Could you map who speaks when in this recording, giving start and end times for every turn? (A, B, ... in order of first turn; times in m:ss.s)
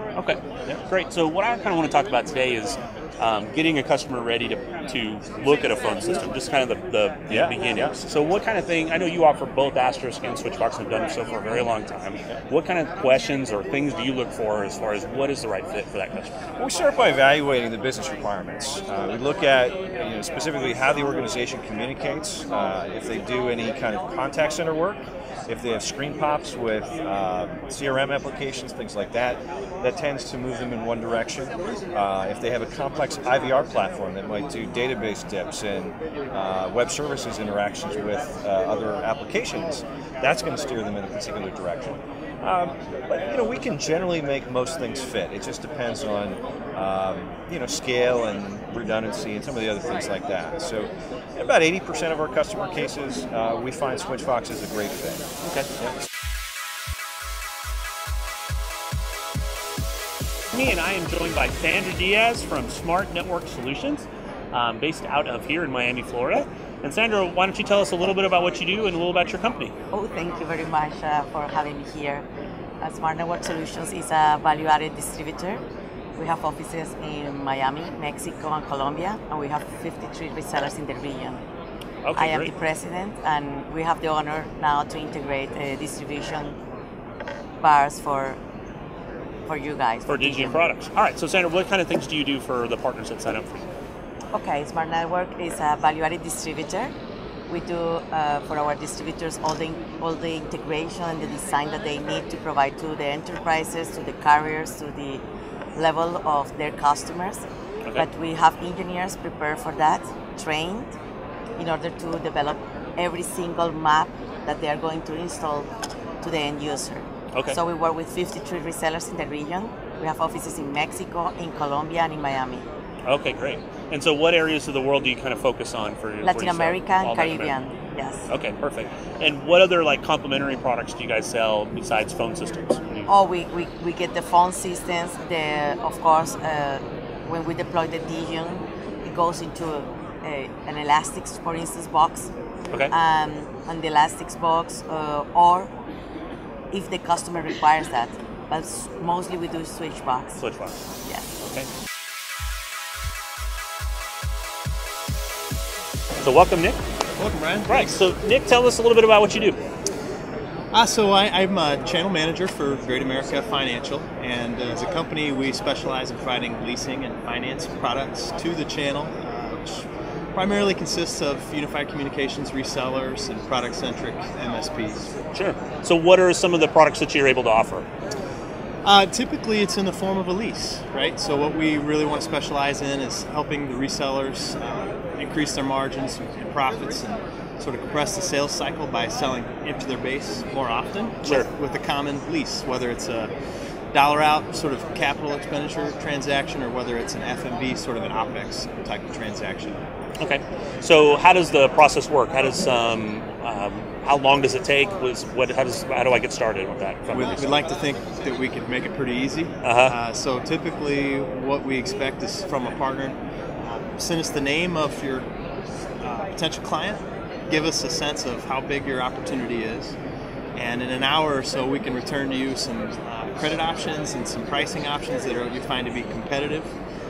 0:00.2-0:16.4 A
0:16.6-0:55.2 B
1:00.5-1:09.7 A
1:09.9-1:12.3 C
1:12.8-1:15.6 C
1:16.2-1:21.4 C
1:22.0-1:22.5 A
1:22.2-1:26.6 C
1:27.6-1:28.4 C
1:29.5-1:30.7 C
1:30.1-1:33.7 A
1:34.3-1:36.9 C
1:37.5-1:47.4 C
1:48.0-1:51.0 C
1:51.6-1:55.7 C
1:56.2-2:02.7 C
1:57.3-1:57.6 A
2:03.0-2:07.6 A
2:06.2-2:08.3 C
2:08.3-2:13.1 A
2:13.0-2:22.3 C
2:22.9-2:25.7 C
2:26.7-2:30.4 C
2:30.4-2:30.8 A
2:36.2-2:36.8 A
2:37.2-2:38.0 D
2:37.7-2:39.6 A
2:40.7-2:55.1 D
2:55.3-2:57.8 A
2:58.8-3:13.3 D
3:11.2-3:11.5 A
3:13.9-3:19.8 D
3:20.2-3:27.6 A
3:27.1-3:35.3 D
3:29.6-3:30.0 A
3:36.0-3:40.0 D
3:40.5-3:46.7 D